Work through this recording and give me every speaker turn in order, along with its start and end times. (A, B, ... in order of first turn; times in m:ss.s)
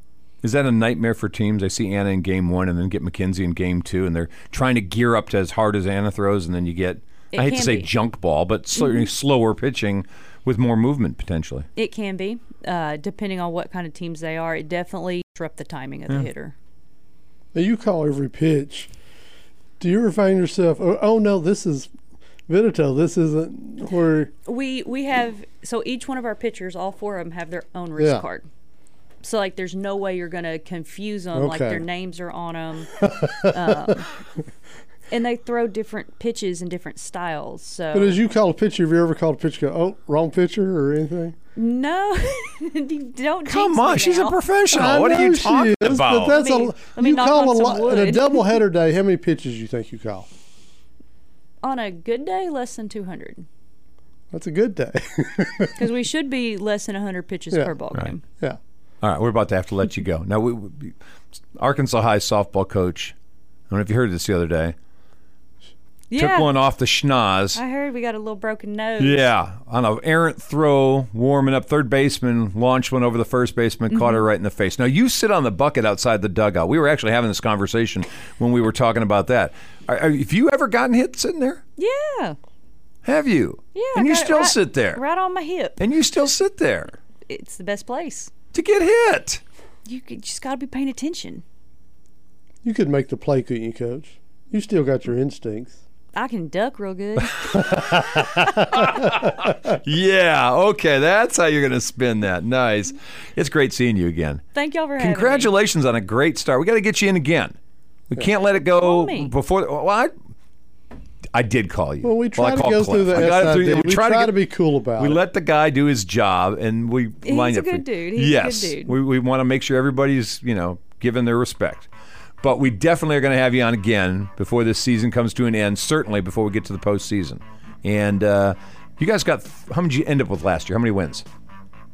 0:00.4-0:11.7 A
0:07.3-0:07.9 B
0:11.8-0:16.5 B
0:17.5-0:18.9 C
0:19.8-0:21.9 C
0:22.5-0:24.3 C
0:24.4-0:28.5 B
0:28.0-0:28.2 C
0:29.2-0:34.1 B
0:31.3-0:31.8 C
0:33.0-0:33.7 C
0:35.1-0:38.2 B
0:37.9-0:41.4 C
0:41.6-0:44.4 B
0:43.4-0:46.4 A
0:44.7-0:50.3 C
0:46.2-0:48.6 B
0:51.6-0:53.4 B
0:54.3-0:55.8 C
0:55.8-0:58.2 B
0:59.0-1:01.0 A
1:01.6-1:03.1 A
1:03.7-1:04.7 A
1:06.1-1:06.5 B
1:06.1-1:07.6 A
1:07.5-1:09.3 B
1:09.0-1:21.6 A
1:13.9-1:14.2 B
1:21.8-1:22.4 B
1:23.0-1:25.0 A
1:23.7-1:25.8 B
1:25.8-1:27.0 A
1:27.3-1:28.3 B
1:28.5-1:29.4 A
1:29.8-1:31.4 B
1:32.6-1:35.8 C
1:36.1-1:37.6 B
1:37.5-1:39.2 C
1:38.1-1:44.4 A
1:44.5-1:45.5 B
1:45.0-1:47.6 A
1:48.1-1:50.1 A
1:48.7-1:49.3 B
1:51.3-1:54.4 A
1:52.0-1:55.2 C
1:55.0-2:01.9 A
1:57.2-1:58.9 B
2:02.4-2:11.2 A